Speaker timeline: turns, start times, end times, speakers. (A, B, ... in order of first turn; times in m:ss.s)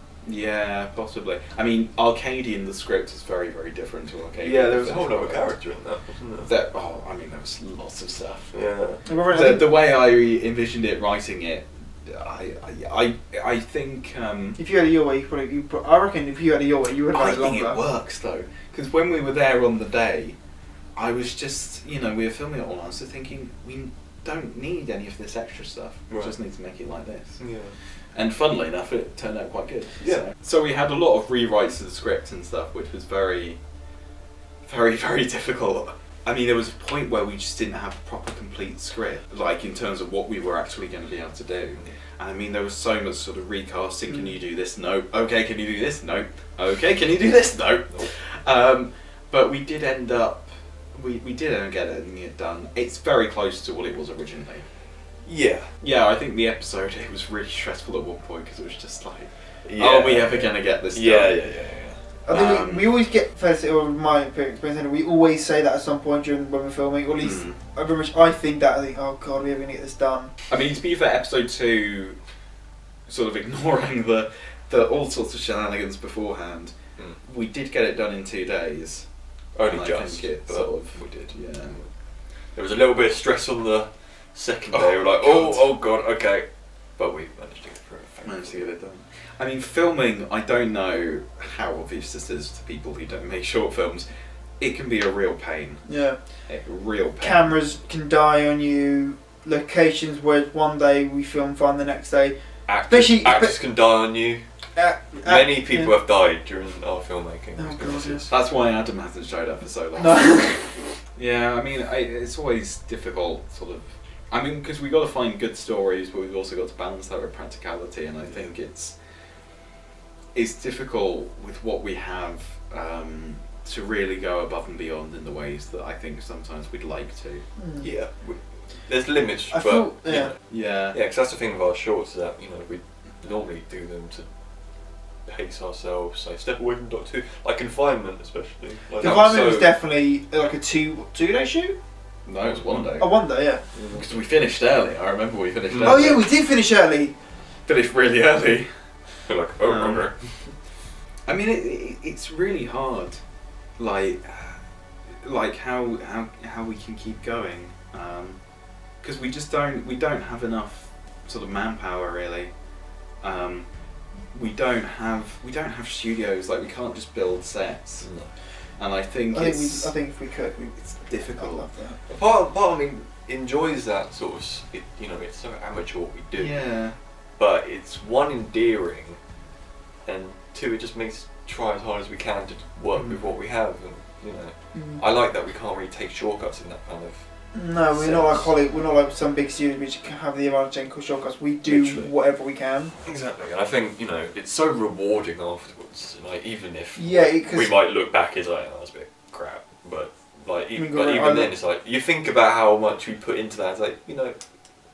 0:00.2-0:05.6 A
0:04.4-0:06.5 B
0:06.4-0:08.6 A
0:08.5-0:09.0 B
0:09.0-0:09.8 C
0:09.2-0:14.6 A
0:14.6-0:17.8 C
0:17.1-0:20.4 A
0:21.0-0:33.6 A
0:26.1-0:26.4 B
0:27.4-0:27.8 B
0:30.0-0:30.2 B
0:34.6-0:54.6 A
0:55.2-0:55.7 B
0:55.8-1:01.6 A
0:59.6-1:02.0 B
1:02.2-1:10.3 C
1:02.3-1:02.9 A
1:07.2-1:07.6 A
1:10.5-1:12.2 A
1:13.1-1:19.1 A
1:19.5-1:21.9 B
1:19.6-1:21.8 A
1:22.5-1:28.7 B
1:24.7-1:25.8 A
1:28.2-1:34.1 A
1:34.6-1:35.8 A
1:35.8-1:36.3 C
1:36.4-1:37.6 A
1:37.2-1:43.6 C
1:42.7-1:44.4 B
1:44.7-1:45.9 C
1:45.1-1:48.3 B
1:47.6-1:48.2 C
1:48.3-1:50.5 A
1:50.0-1:50.8 C
1:51.1-1:59.0 A
1:58.2-1:58.5 B
2:00.3-2:07.4 A
2:07.6-2:07.9 C
2:07.8-2:19.7 B
2:09.5-2:10.3 C
2:10.1-2:11.0 A
2:19.0-2:21.8 C
2:22.2-2:23.2 A
2:22.4-2:22.9 B
2:23.0-2:23.6 C
2:23.7-2:24.1 B
2:23.7-2:26.3 A
2:25.7-2:26.1 B
2:25.8-2:27.1 C
2:27.6-2:28.9 A
2:29.2-2:30.2 B
2:29.6-2:30.4 A
2:31.3-2:33.2 A
2:33.8-2:34.6 A
2:35.2-2:38.4 A
2:39.0-2:42.5 A
2:43.2-2:43.7 A
2:44.3-2:50.2 A
2:48.0-2:48.4 B
2:49.3-2:52.0 C
2:50.8-2:51.7 A
2:52.0-2:56.8 B
2:56.3-2:57.0 A
2:57.4-2:59.2 B
3:00.0-3:08.5 B
3:02.9-3:03.2 A
3:04.7-3:05.0 C
3:07.5-3:12.9 C
3:11.6-3:12.1 B
3:13.0-3:24.4 B
3:16.9-3:17.7 C
3:20.7-3:21.5 C